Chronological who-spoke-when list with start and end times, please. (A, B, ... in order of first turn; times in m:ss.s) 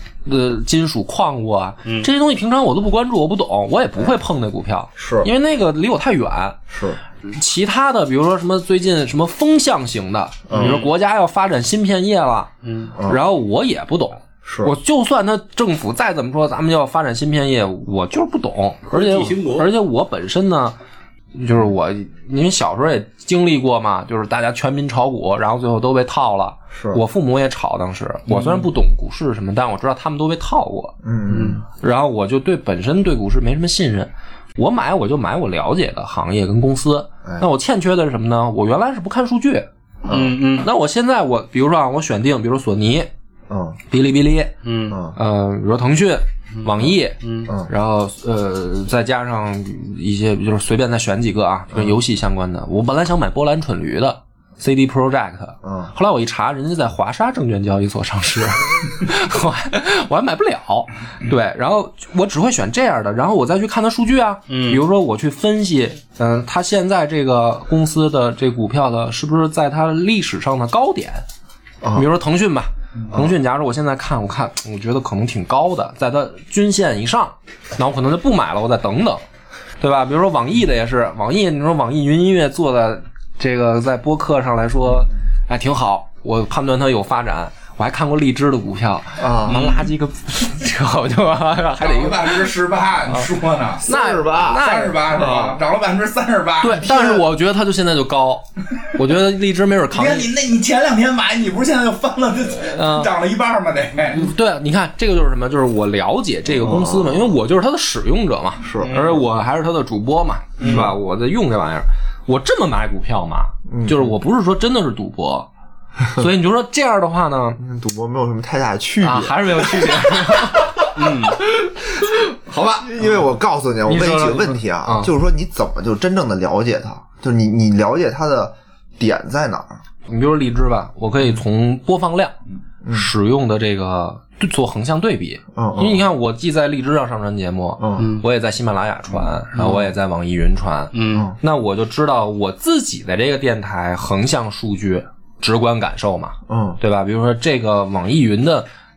0:00.2-0:06.6 A
0:05.0-0:05.3 B
0:06.7-0:07.0 B
0:07.2-0:12.5 A
0:10.5-0:10.8 B
0:10.5-0:10.9 C
0:12.6-0:12.9 C
0:12.9-0:13.2 B
0:13.0-0:20.7 A
0:14.4-0:14.7 B
0:18.9-0:19.7 C
0:21.3-0:30.9 A
0:26.7-0:27.0 B
0:31.0-0:31.6 B
0:31.3-0:31.6 C
0:31.7-0:39.7 A
0:40.0-0:40.7 C
0:40.1-0:40.4 B
0:40.6-0:43.1 A
0:43.5-0:43.8 B
0:43.9-0:44.5 A
0:44.6-0:45.0 C
0:44.9-0:45.2 B
0:45.1-0:47.2 A
0:47.2-0:47.5 C
0:47.7-1:11.2 A
0:55.6-0:55.9 B
1:04.5-1:04.8 C
1:11.8-1:12.1 B
1:11.9-1:19.2 A
1:19.8-1:32.5 A
1:29.2-1:29.8 B
1:31.7-1:33.8 D
1:33.8-1:35.6 B
1:33.8-1:35.0 A
1:34.5-1:36.8 D
1:36.6-1:40.3 A
1:36.8-1:37.2 B
1:39.9-1:44.3 D
1:42.7-1:43.1 A
1:44.1-1:55.5 A
1:46.5-1:47.3 B
1:48.6-1:49.0 B
1:48.8-1:49.2 C
1:50.6-1:50.9 C
1:50.6-1:50.9 B
1:53.7-1:54.2 B
1:56.1-1:57.6 A
1:57.6-2:00.7 B
1:59.0-2:01.1 A
2:00.9-2:01.4 C
2:02.6-2:03.2 A
2:02.8-2:09.8 B
2:03.8-2:05.1 A
2:10.1-2:12.3 A
2:12.8-2:13.1 B
2:12.9-2:28.6 A
2:15.5-2:16.0 B
2:17.8-2:18.1 B
2:18.0-2:18.2 C
2:19.6-2:19.8 B
2:20.9-2:21.3 C
2:21.1-2:21.4 B
2:26.5-2:26.8 B